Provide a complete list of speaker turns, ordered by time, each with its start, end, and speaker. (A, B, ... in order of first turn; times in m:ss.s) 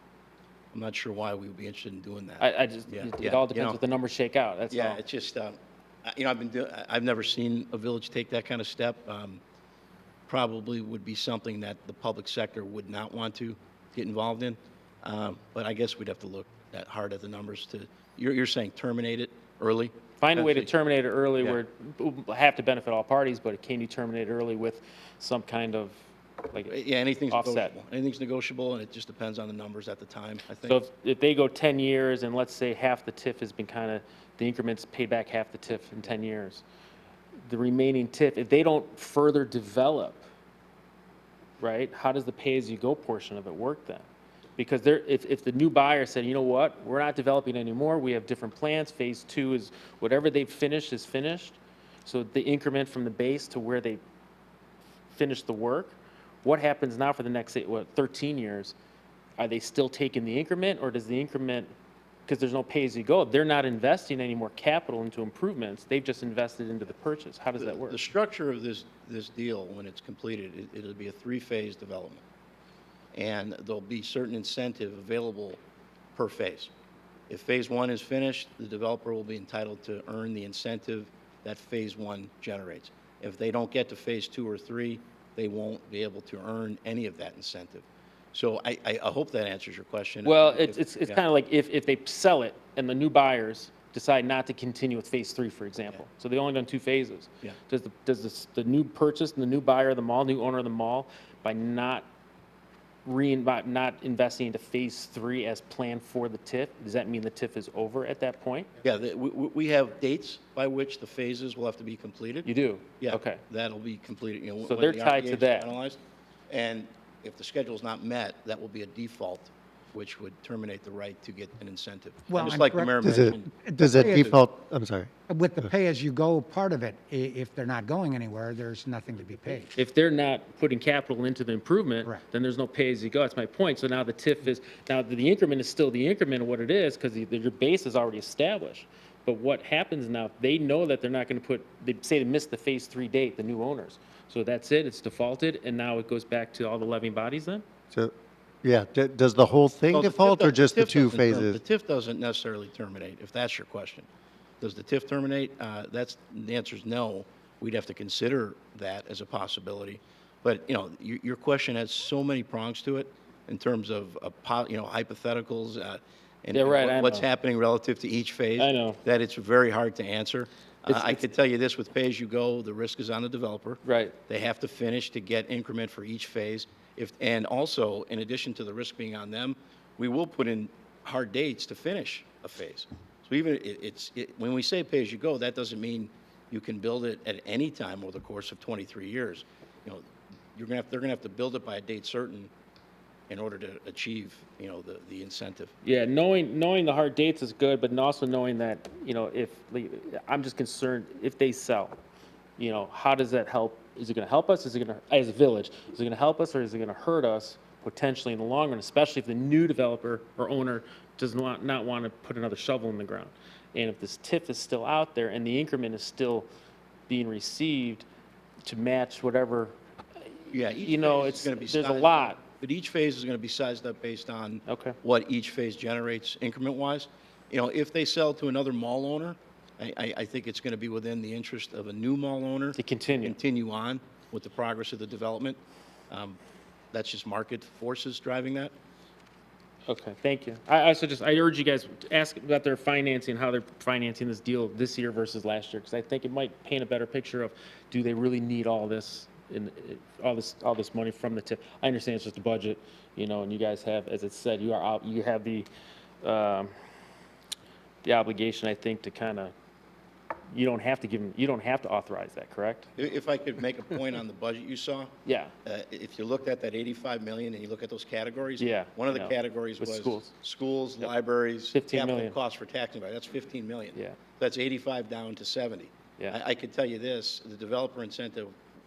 0:00.7-0:03.8 A
0:02.4-0:05.0 B
0:04.7-0:09.4 A
0:10.3-0:20.7 A
0:20.2-0:26.8 B
0:26.7-0:30.8 A
0:27.3-0:27.7 B
0:30.6-0:36.6 B
0:37.5-0:40.2 B
0:41.6-0:54.0 B
0:55.1-0:58.8 B
0:59.4-1:01.7 B
1:02.3-1:08.0 B
1:07.6-1:12.2 A
1:13.1-1:15.6 A
1:16.2-1:16.7 A
1:17.3-1:31.2 A
1:30.2-1:42.1 B
1:43.0-1:48.7 B
1:48.8-1:52.5 A
1:52.5-1:53.4 B
1:53.0-1:56.0 A
1:54.6-1:55.7 B
1:56.5-2:04.4 A
2:02.3-2:04.4 C
2:03.0-2:05.1 D
2:05.3-2:09.7 C
2:09.8-2:27.6 B
2:27.9-2:31.6 D
2:29.9-2:34.1 A
2:34.6-3:12.5 A
2:46.5-2:47.2 B
2:48.6-2:49.0 B
2:50.9-2:51.2 B
2:53.8-2:54.2 B
3:13.3-3:15.7 A
3:15.8-3:22.0 B
3:22.6-3:36.5 B
3:37.1-3:38.1 B
3:38.6-3:39.8 B
3:40.5-3:42.4 B
3:40.5-3:55.6 A
3:44.7-3:45.0 B
3:52.8-3:53.4 B
3:56.1-3:56.4 A
3:56.9-3:58.7 A
3:59.9-4:15.7 B
4:16.2-4:16.7 B
4:18.0-4:19.5 B
4:20.5-4:22.9 B
4:23.0-4:25.1 A
4:25.2-4:25.5 B
4:25.6-4:38.5 A
4:28.6-4:30.3 B
4:31.7-4:32.4 B